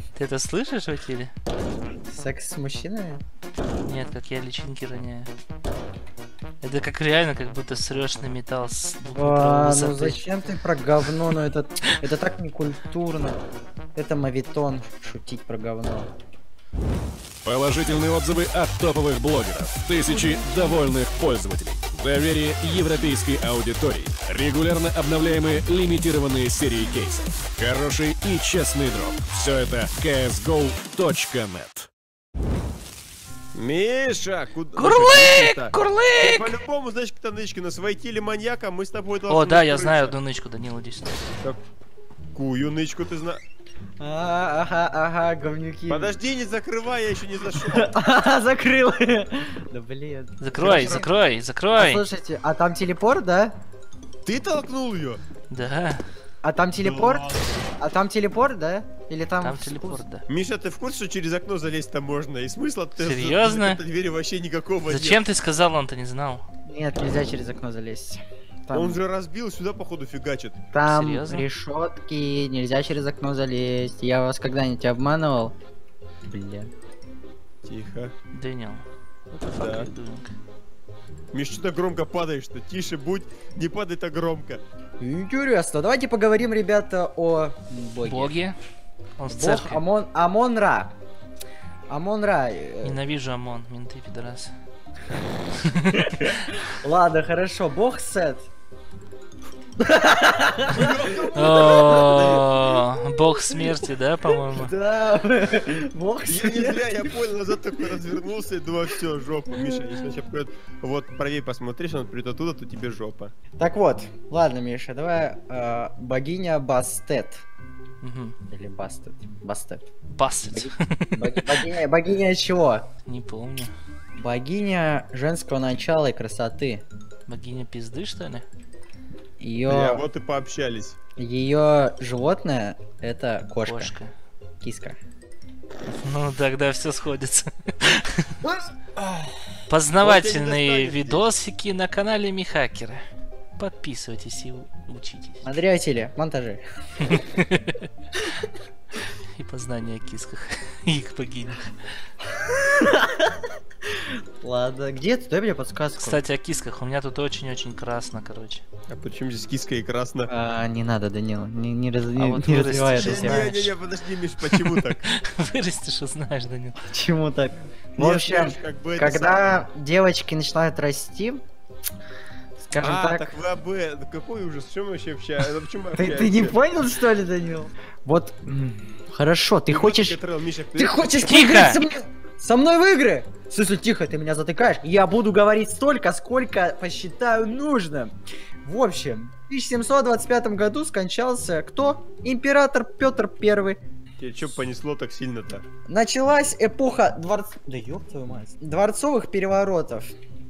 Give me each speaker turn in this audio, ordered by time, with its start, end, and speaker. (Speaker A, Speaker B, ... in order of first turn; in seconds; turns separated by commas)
Speaker A: 0.1-1.3, Speaker B: 2.1-3.2, Speaker A: 3.8-5.3, Speaker A: 6.6-10.2, Speaker B: 9.1-13.4, Speaker B: 13.9-16.1, Speaker C: 17.4-31.9, Speaker D: 33.5-40.1, Speaker A: 34.8-36.6, Speaker A: 39.3-41.2, Speaker D: 42.3-43.4, Speaker B: 44.0-46.2, Speaker D: 45.9-47.9, Speaker B: 47.6-51.1, Speaker A: 50.4-52.0, Speaker D: 50.6-51.0, Speaker B: 51.7-53.6, Speaker D: 54.2-55.2, Speaker A: 55.5-56.0, Speaker B: 56.4-60.0, Speaker D: 56.8-57.6, Speaker A: 59.4-60.2, Speaker D: 60.3-65.2, Speaker A: 63.0-63.8, Speaker A: 64.9-66.4, Speaker B: 66.7-69.0, Speaker D: 68.7-70.6, Speaker B: 70.7-75.5, Speaker A: 70.8-71.5, Speaker B: 76.2-76.7, Speaker D: 77.6-78.1, Speaker A: 78.3-80.3, Speaker D: 79.6-79.9, Speaker D: 81.3-84.6, Speaker B: 85.0-88.3, Speaker A: 88.0-88.5, Speaker A: 89.2-89.8, Speaker B: 89.3-90.9, Speaker B: 91.9-93.0, Speaker A: 92.8-94.5, Speaker A: 95.7-96.6, Speaker B: 96.0-98.5, Speaker B: 99.8-102.2, Speaker D: 100.7-102.7, Speaker A: 101.3-104.7, Speaker B: 104.5-107.2, Speaker D: 106.3-113.3, Speaker B: 113.6-117.4, Speaker A: 118.0-118.3, Speaker B: 118.5-119.9, Speaker A: 120.1-121.5, Speaker B: 120.5-122.8, Speaker A: 123.1-123.7, Speaker B: 124.2-126.8, Speaker A: 127.3-128.4, Speaker B: 129.4-130.1, Speaker D: 129.7-131.0, Speaker B: 131.2-133.9, Speaker A: 133.6-134.1, Speaker B: 134.6-135.0, Speaker A: 135.8-138.3, Speaker A: 139.7-143.0, Speaker D: 140.0-141.2, Speaker A: 143.6-145.4, Speaker B: 145.4-147.2, Speaker A: 147.0-147.8, Speaker A: 149.3-151.7, Speaker B: 152.3-153.5, Speaker B: 154.4-156.2, Speaker A: 156.0-158.6, Speaker D: 158.9-160.3, Speaker B: 160.3-163.5, Speaker A: 162.2-163.8, Speaker D: 163.0-165.0, Speaker A: 164.5-166.7, Speaker B: 166.9-171.4, Speaker D: 167.9-169.7, Speaker B: 172.6-173.3, Speaker D: 172.8-176.6, Speaker B: 175.9-180.2, Speaker D: 179.7-181.2, Speaker B: 180.7-193.8, Speaker A: 181.2-181.8, Speaker D: 194.2-195.6, Speaker B: 195.9-200.1